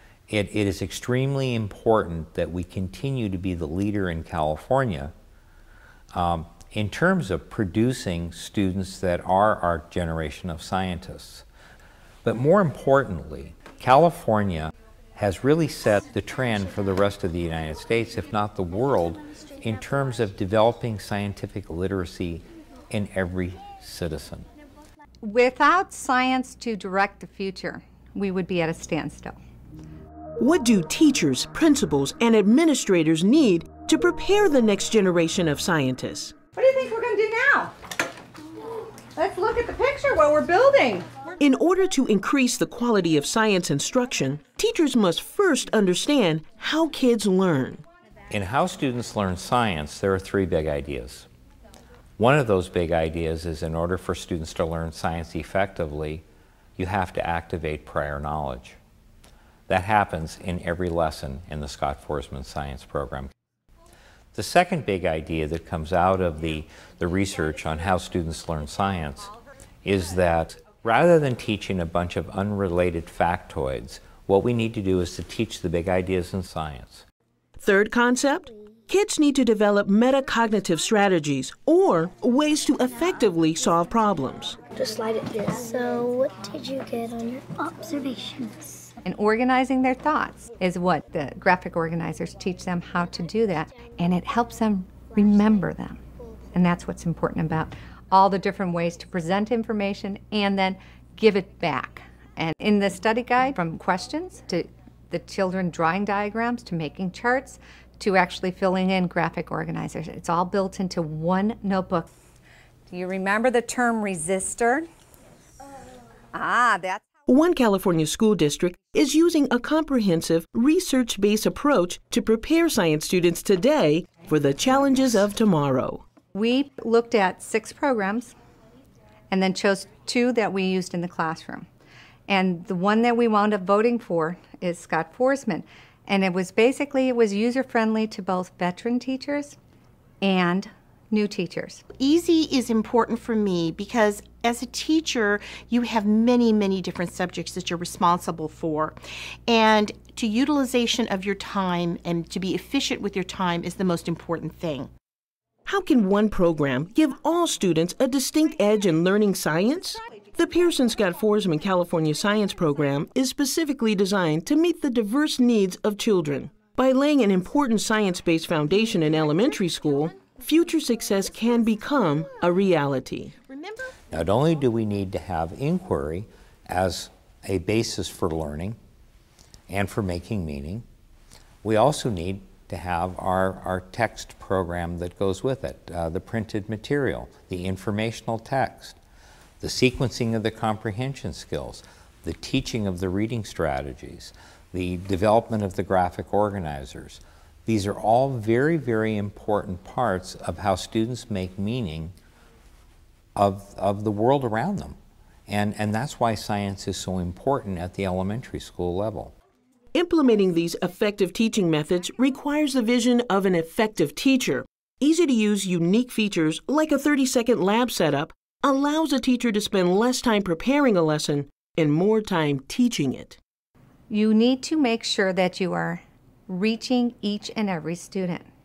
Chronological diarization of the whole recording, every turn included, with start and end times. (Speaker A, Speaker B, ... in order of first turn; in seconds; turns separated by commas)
Speaker A: 0.3-5.1, Speaker A: 6.1-11.4, Speaker A: 12.2-24.5, Speaker B: 25.2-29.3, Speaker C: 30.4-36.3, Speaker B: 36.5-37.7, Speaker B: 39.1-41.1, Speaker C: 41.4-47.8, Speaker A: 48.3-51.3, Speaker A: 52.2-56.2, Speaker A: 56.8-58.8, Speaker A: 59.7-63.3, Speaker A: 64.3-77.0, Speaker C: 77.6-84.6, Speaker D: 84.7-88.9, Speaker B: 89.0-96.0, Speaker B: 96.5-112.1, Speaker B: 112.9-114.8, Speaker B: 116.3-117.0, Speaker C: 117.3-126.0, Speaker B: 126.3-128.3, Speaker B: 129.3-131.7, Speaker B: 132.3-139.6, Speaker B: 140.2-141.8, Speaker E: 141.9-154.9, Speaker C: 155.7-173.4, Speaker E: 173.4-174.0, Speaker A: 174.1-178.8, Speaker A: 179.7-180.8, Speaker A: 181.6-189.0, Speaker A: 189.6-202.1, Speaker A: 203.3-204.9, Speaker A: 205.5-209.3, Speaker C: 209.9-223.4, Speaker B: 224.1-228.5